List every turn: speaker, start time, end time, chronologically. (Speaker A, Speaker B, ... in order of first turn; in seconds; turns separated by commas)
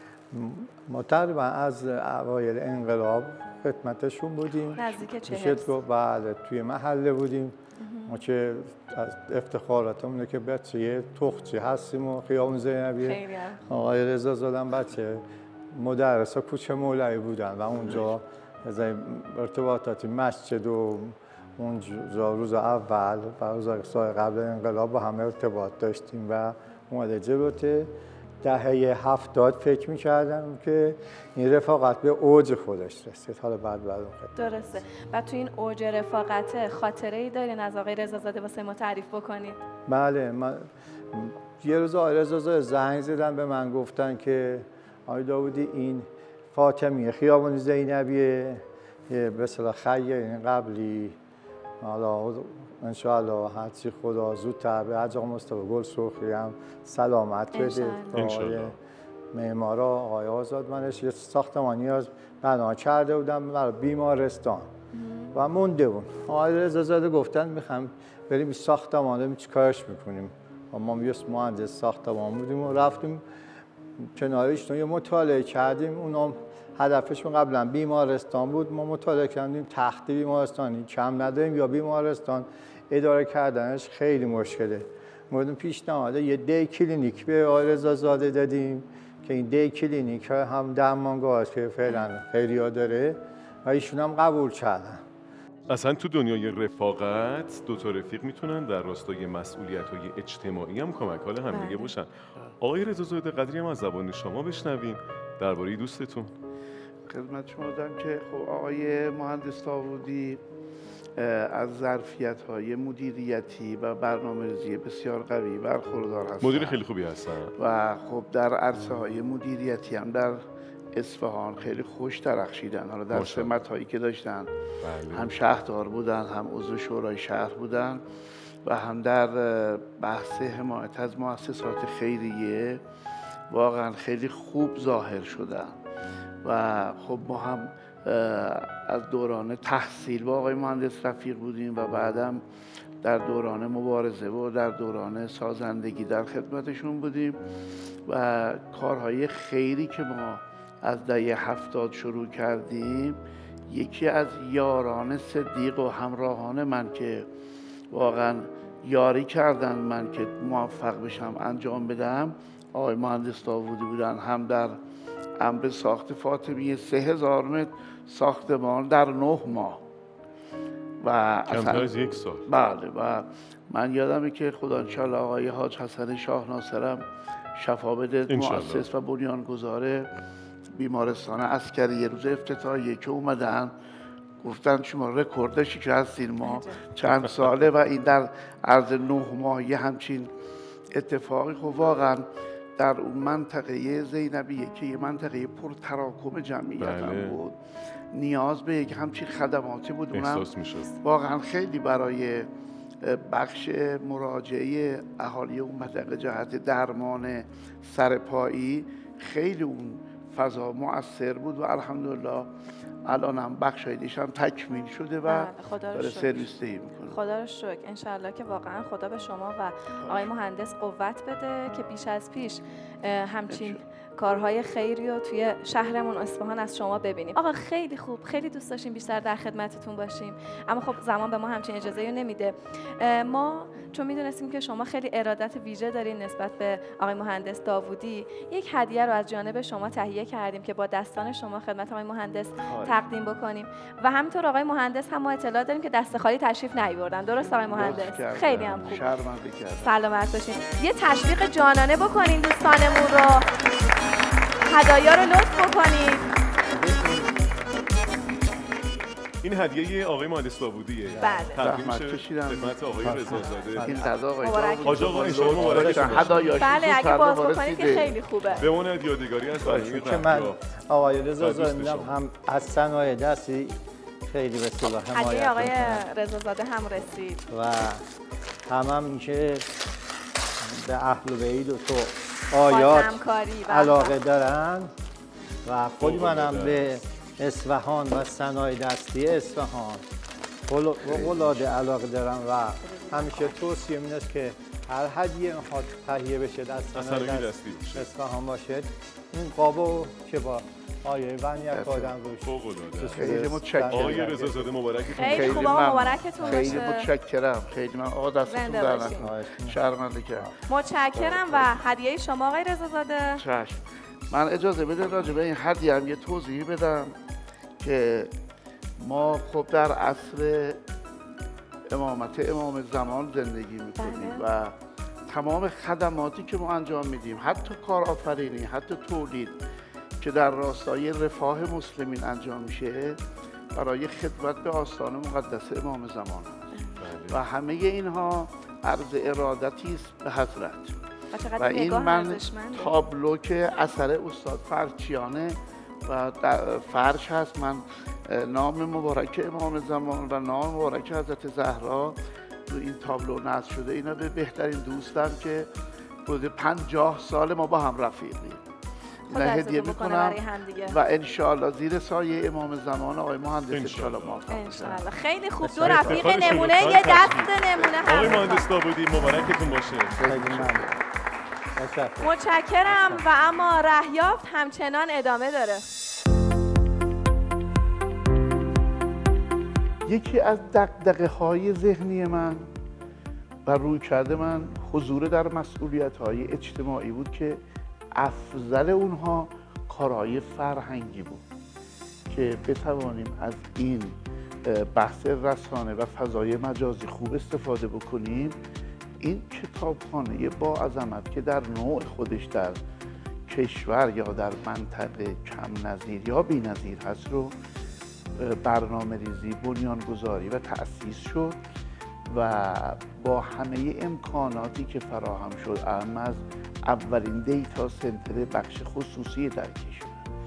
Speaker A: 0.3-34.3, Speaker B: 4.8-5.7, Speaker B: 7.8-8.2, Speaker B: 13.0-13.6, Speaker B: 34.4-39.6, Speaker A: 39.9-51.2, Speaker A: 51.8-58.8, Speaker B: 57.5-58.2, Speaker C: 58.1-58.7, Speaker A: 59.3-64.7, Speaker B: 64.9-65.3, Speaker A: 65.3-73.2, Speaker A: 74.1-95.0, Speaker C: 95.7-106.3, Speaker B: 101.5-101.9, Speaker D: 107.1-110.4, Speaker D: 111.2-116.8, Speaker C: 116.4-117.5, Speaker D: 117.6-124.5, Speaker C: 123.1-123.5, Speaker C: 124.8-125.3, Speaker D: 125.1-128.0, Speaker D: 128.6-132.8, Speaker D: 133.5-135.8, Speaker D: 136.4-142.4, Speaker D: 143.0-147.4, Speaker D: 148.1-157.3, Speaker D: 157.9-164.8, Speaker D: 165.4-169.8, Speaker D: 171.0-171.9, Speaker C: 171.5-172.4, Speaker D: 172.4-180.1, Speaker C: 178.3-178.9, Speaker D: 180.7-183.7, Speaker D: 184.4-190.3, Speaker B: 186.4-186.8, Speaker D: 190.9-197.6, Speaker C: 196.8-197.4, Speaker D: 198.1-200.5, Speaker C: 200.1-200.9, Speaker D: 201.0-202.5, Speaker D: 203.0-212.5, Speaker D: 213.1-217.2, Speaker B: 215.3-216.4, Speaker B: 217.1-249.1, Speaker D: 220.0-220.3, Speaker D: 223.5-223.8, Speaker D: 242.6-243.1, Speaker D: 247.6-249.9, Speaker B: 249.8-253.5, Speaker B: 254.6-256.2, Speaker A: 256.7-257.4, Speaker C: 259.4-264.1, Speaker B: 261.2-261.6, Speaker D: 261.6-268.1, Speaker A: 263.1-264.1, Speaker B: 264.4-265.3, Speaker C: 264.8-266.4, Speaker A: 265.6-266.4, Speaker B: 266.6-268.7, Speaker C: 268.6-270.6, Speaker A: 269.5-276.0, Speaker C: 271.4-272.2, Speaker B: 275.1-277.4, Speaker A: 277.5-278.0, Speaker A: 278.7-279.7, Speaker A: 280.6-284.9, Speaker B: 282.7-284.1, Speaker A: 285.6-290.0, Speaker C: 286.0-286.9, Speaker A: 290.7-304.7, Speaker D: 291.0-291.6, Speaker B: 292.8-293.6, Speaker C: 296.9-298.1, Speaker D: 301.7-302.1, Speaker C: 302.4-306.2, Speaker D: 303.1-304.5, Speaker B: 305.1-307.1, Speaker D: 305.2-310.5, Speaker A: 306.4-306.8, Speaker B: 308.4-309.2, Speaker A: 309.1-309.8, Speaker B: 310.7-313.4, Speaker D: 311.1-311.8, Speaker D: 313.4-317.2, Speaker D: 317.8-318.3, Speaker D: 319.0-320.8, Speaker D: 321.9-324.8, Speaker B: 324.0-324.4, Speaker D: 325.3-329.6, Speaker D: 330.2-333.2, Speaker D: 333.7-336.8, Speaker C: 337.0-337.4, Speaker D: 337.3-341.0, Speaker B: 341.3-342.9, Speaker D: 341.6-355.7, Speaker D: 356.2-358.6, Speaker D: 359.3-365.0, Speaker B: 359.3-360.9, Speaker C: 363.7-364.4, Speaker B: 364.5-368.7, Speaker A: 365.6-366.3, Speaker C: 365.8-370.2, Speaker D: 367.8-368.1, Speaker D: 370.1-371.0, Speaker A: 370.2-370.9, Speaker A: 371.8-372.3, Speaker B: 372.2-375.8, Speaker D: 380.0-382.7, Speaker D: 383.6-387.6, Speaker D: 388.1-391.4, Speaker D: 392.3-398.6, Speaker D: 399.2-402.8, Speaker D: 403.4-407.6, Speaker D: 408.4-411.6, Speaker D: 412.3-420.3